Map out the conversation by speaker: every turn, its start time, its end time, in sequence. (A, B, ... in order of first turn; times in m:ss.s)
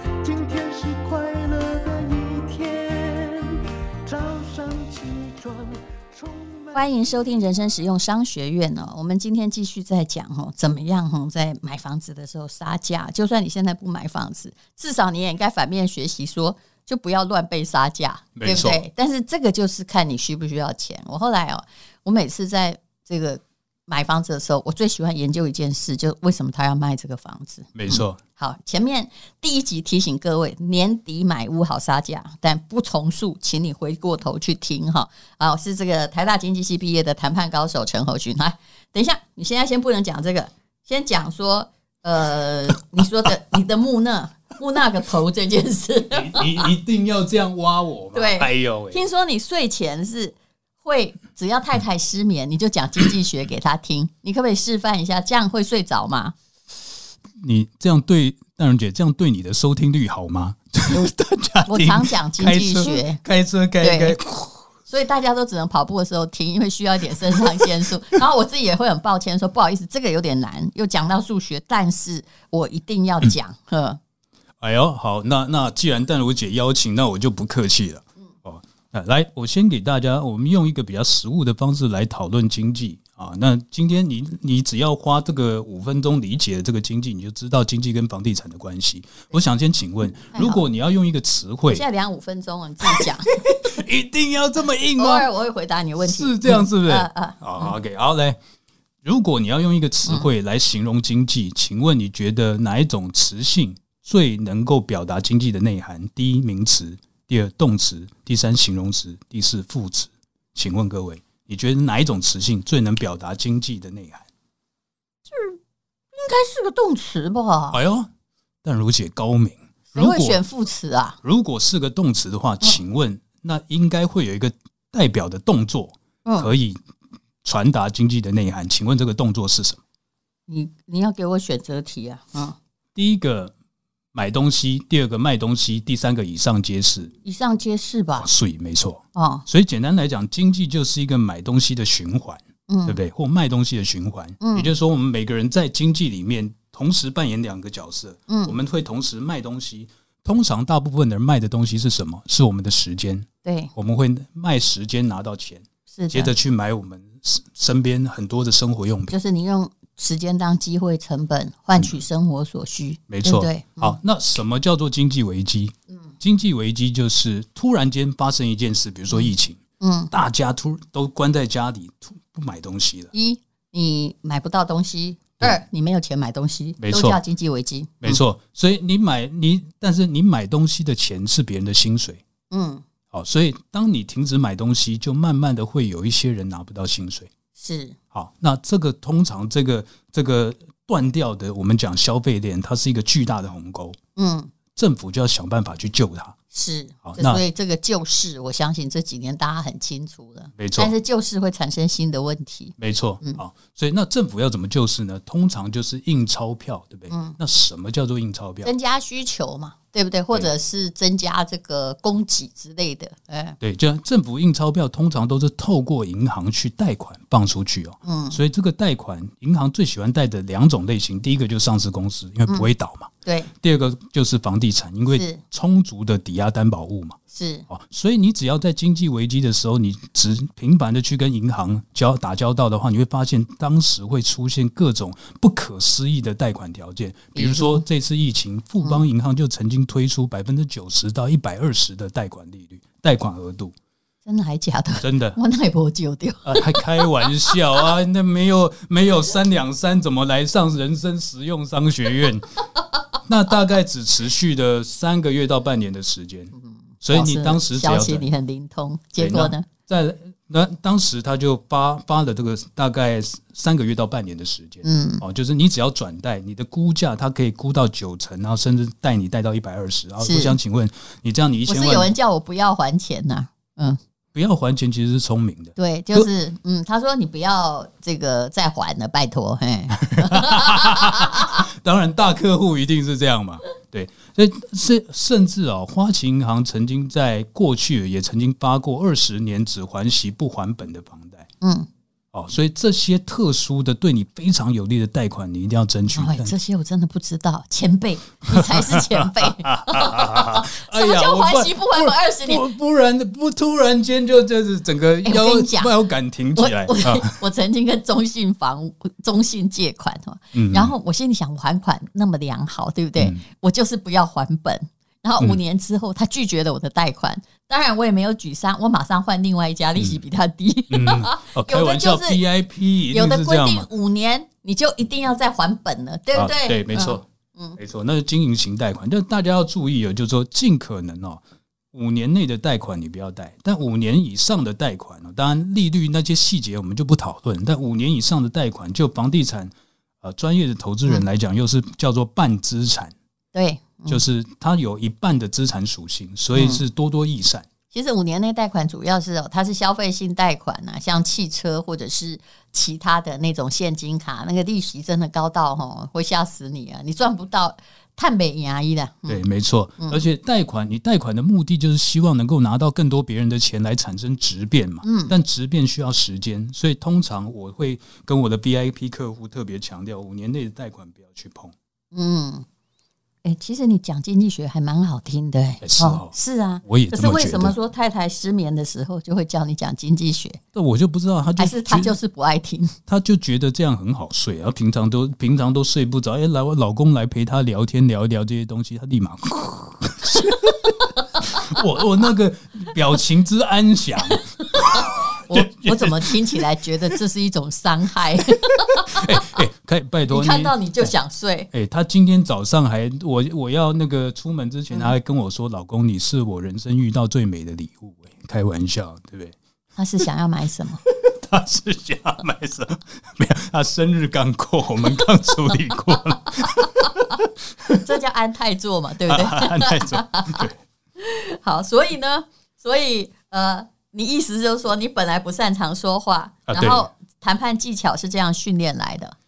0:00.2-0:06.8 A
0:06.7-0:46.7 B
0:18.4-0:18.8 C
0:27.7-0:28.2 C
0:46.1-0:49.0 C
0:48.1-0:56.3 B
0:57.4-1:04.7 C
1:01.6-1:03.2 B
1:03.8-1:04.2 B
1:04.9-1:14.0 B
1:14.6-1:31.8 C
1:30.1-1:30.6 B
1:31.7-1:33.8 B
1:32.8-1:35.3 C
1:35.0-1:37.8 B
1:36.0-1:38.4 C
1:39.0-1:54.3 C
1:55.3-1:55.6 B
1:56.1-1:57.8 B
1:57.7-1:58.1 C
1:58.6-2:00.4 C
1:59.9-2:01.2 B
2:01.2-2:06.8 C
2:06.2-2:06.5 B
2:07.4-2:09.8 C
2:10.5-2:12.6 B
2:12.9-2:13.5 C
2:14.1-2:17.1 C
2:17.2-2:18.3 B
2:18.2-2:39.2 C
2:19.1-2:19.5 B
2:22.7-2:23.0 B
2:24.4-2:24.7 B
2:28.3-2:28.6 B
2:33.4-2:33.7 B
2:35.9-2:36.3 B
2:39.1-2:44.0 B
2:43.1-2:49.6 C
2:49.1-2:50.1 B
2:50.1-2:53.1 C
2:53.1-2:58.2 B
2:56.8-2:57.2 C
2:58.0-3:02.2 C
3:02.5-3:02.8 B
3:03.1-3:07.3 C
3:07.6-3:08.0 B
3:08.1-3:14.0 C
3:14.2-3:14.5 B
3:14.8-3:16.3 C
3:16.5-3:23.4 B
3:17.0-3:17.4 C
3:20.6-3:20.9 C
3:22.8-3:28.7 C
3:27.1-3:27.4 B
3:28.6-3:33.6 B
3:33.6-3:43.1 C
3:38.0-3:38.4 B
3:43.2-3:43.5 B
3:43.6-3:47.2 C
3:45.1-3:45.4 B
3:47.3-3:47.7 B
3:47.7-4:03.7 C
3:57.3-3:57.8 B
4:04.2-4:07.6 B
4:05.0-4:05.4 C
4:06.4-4:12.6 C
4:13.2-4:18.3 C
4:16.5-4:19.7 B
4:19.2-4:32.1 C
4:24.8-4:25.2 B
4:30.2-4:30.6 B
4:31.6-4:34.0 B
4:34.3-4:36.3 C
4:35.8-4:41.6 B
4:39.9-4:51.4 C
4:51.6-4:51.9 B
4:52.3-4:56.5 C
4:56.1-5:02.7 B
4:58.5-5:07.4 C
5:05.2-5:05.9 B
5:06.6-5:22.4 B
5:10.5-5:10.9 C
5:13.2-5:13.4 C
5:20.9-5:23.9 C
5:23.1-5:27.8 B
5:26.3-5:27.2 C
5:27.8-5:31.4 C
5:31.9-5:43.1 C
5:43.5-5:44.2 B
5:44.1-5:47.6 C
5:46.5-5:46.8 B
5:47.9-5:59.4 B
5:59.3-6:11.7 C
6:05.0-6:05.3 B
6:12.1-6:12.6 B
6:13.4-6:20.6 B
6:15.8-6:16.3 C
6:16.8-6:17.8 C
6:20.7-6:22.2 C
6:21.6-6:23.0 B
6:23.1-6:36.6 C
6:34.2-6:39.5 B
6:38.5-6:41.1 C
6:40.3-6:41.7 B
6:41.7-6:49.6 C
6:49.9-6:51.0 B
6:51.0-6:58.0 C
6:58.0-7:00.7 B
6:59.3-7:00.8 C
7:01.2-7:09.4 B
7:06.7-7:07.0 C